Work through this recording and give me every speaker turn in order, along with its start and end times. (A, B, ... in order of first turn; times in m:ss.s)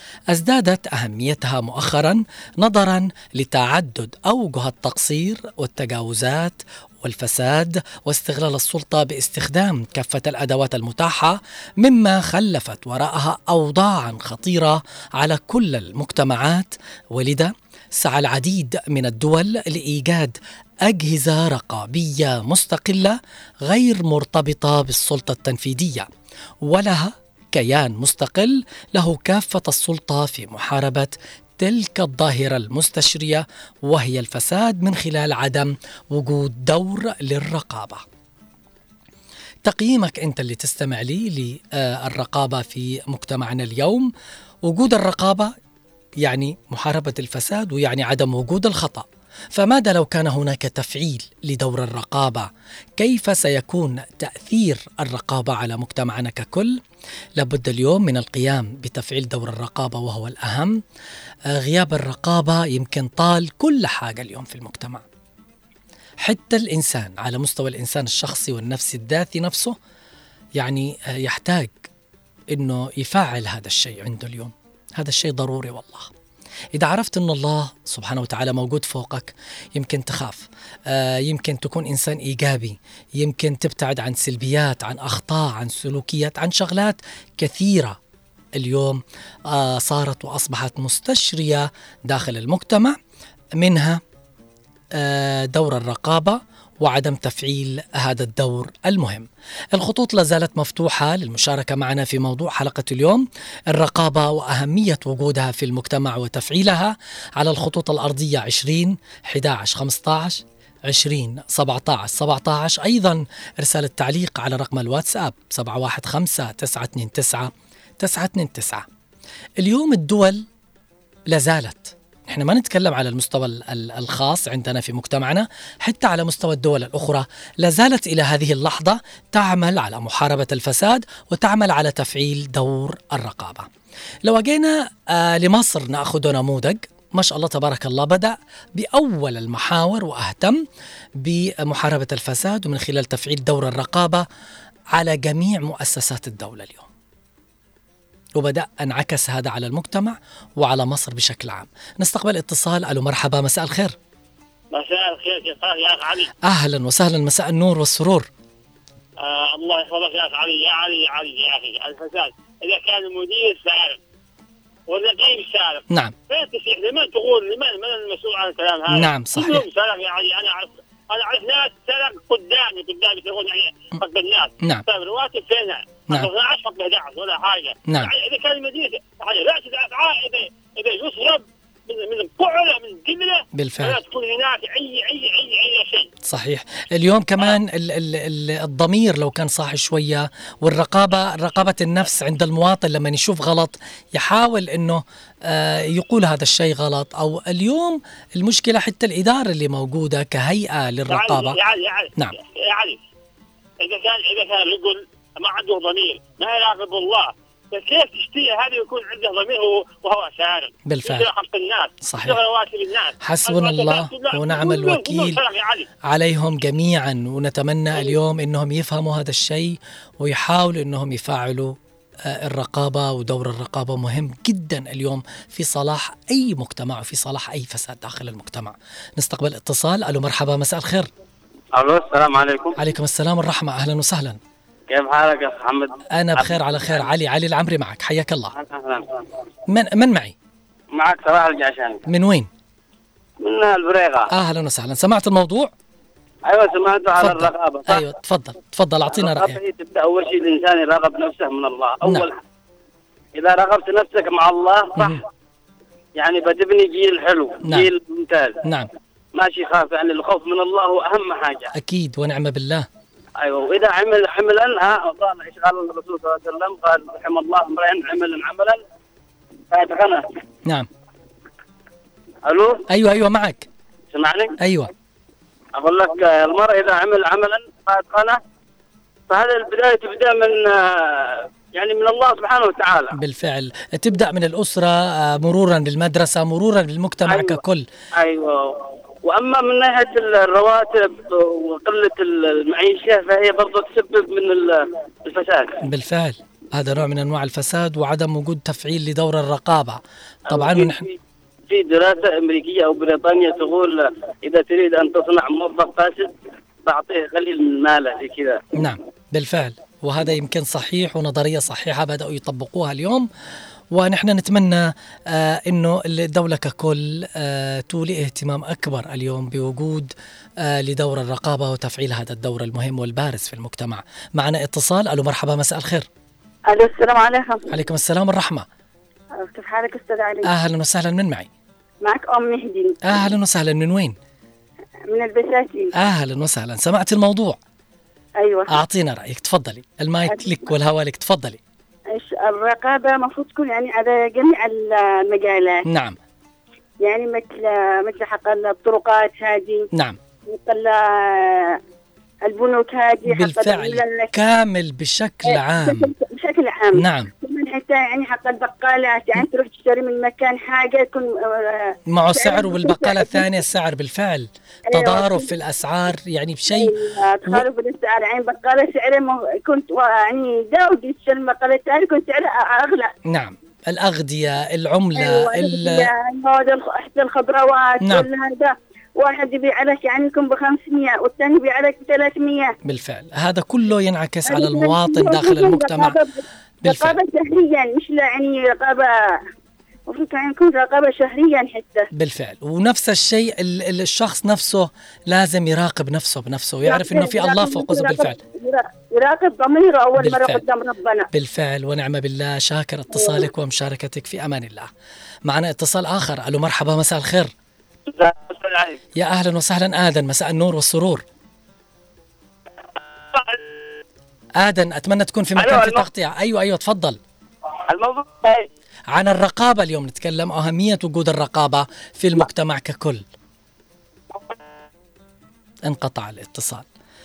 0:00.3-0:26.1 A
0:26.6-0:38.0 A
0:39.6-0:44.1 A
0:44.7-0:45.5 A
0:46.2-0:56.8 A
0:57.4-1:00.8 A
1:01.5-1:05.0 A
1:06.2-1:09.8 A
1:10.6-1:11.9 A
1:12.5-1:16.1 A
1:16.8-1:28.0 A
1:28.6-1:33.0 A
1:33.6-1:34.0 A
1:35.0-1:58.8 A
1:59.6-2:00.4 A
2:01.3-2:13.7 A
2:14.3-2:20.6 A
2:21.2-2:24.2 A
2:24.9-2:26.9 A
2:28.4-2:34.0 A
2:34.7-2:36.3 B
2:36.4-2:38.3 A
2:39.2-2:44.0 B
2:44.9-3:06.1 B
2:48.9-2:49.6 A
2:57.9-2:58.1 A
3:03.6-3:04.0 A
3:06.2-3:21.6 A
3:21.1-3:23.0 B
3:23.8-3:35.9 B
3:30.9-3:31.3 A
3:32.0-3:32.4 A
3:33.2-3:35.4 A
3:36.1-3:51.1 A
3:51.8-3:52.8 C
3:52.8-3:54.4 A
3:54.9-3:57.1 C
3:56.2-3:58.5 A
3:58.5-3:59.2 C
3:59.7-4:00.4 A
4:00.9-4:02.0 C
4:02.1-4:02.5 A
4:03.4-4:04.3 C
4:04.3-4:05.7 A
4:06.4-4:08.0 C
4:07.2-4:09.6 A
4:09.1-4:12.4 C
4:13.4-4:15.2 C
4:16.2-4:18.6 C
4:18.6-4:18.9 A
4:19.4-4:21.7 C
4:21.8-4:22.9 A
4:23.4-4:28.8 C
4:29.7-4:30.2 C
4:32.4-4:32.8 C
4:32.9-4:33.7 A
4:34.1-4:34.5 C
4:34.6-4:34.9 A
4:35.8-4:38.4 C
4:39.3-4:43.2 C
4:43.2-4:47.9 A
4:47.2-4:47.6 C
4:48.2-4:55.8 C
4:55.8-5:01.0 A
5:00.5-5:01.2 C
5:01.7-5:06.3 C
5:06.8-5:08.6 C
5:08.8-5:13.3 A
5:13.9-5:26.1 A
5:26.7-5:27.8 D
5:27.7-5:28.7 A
5:29.4-5:30.5 D
5:30.4-5:31.5 A
5:32.0-5:33.2 D
5:33.0-5:34.2 A
5:35.1-5:35.9 D
5:36.0-5:37.6 A
5:38.4-5:38.8 D
5:38.7-5:41.6 A
5:40.3-5:40.7 D
5:42.1-5:45.8 D
5:45.9-5:46.2 A
5:47.0-5:49.9 D
5:49.9-5:50.2 A
5:50.5-5:51.8 D
5:52.4-5:54.3 D
5:53.3-5:56.1 A
5:55.5-6:03.5 D
5:57.0-5:57.3 A
6:02.1-6:06.9 A
6:04.9-6:05.5 D
6:06.7-6:13.1 D
6:13.3-6:16.1 A
6:15.2-6:22.7 D
6:18.0-6:18.3 A
6:22.8-6:26.2 A
6:24.5-6:29.4 D
6:26.8-6:27.2 A
6:30.1-6:32.1 D
6:32.1-6:38.4 A
6:36.8-6:41.3 D
6:40.2-6:40.6 A
6:41.3-6:44.9 A
6:43.1-6:43.5 D
6:45.5-6:47.5 A
6:48.1-6:49.0 C
6:49.2-6:51.2 A
6:53.3-6:53.6 C
6:54.6-6:57.2 A
6:55.6-6:56.1 C
6:57.9-6:58.7 C
6:59.1-7:03.2 A
7:05.8-7:06.8 A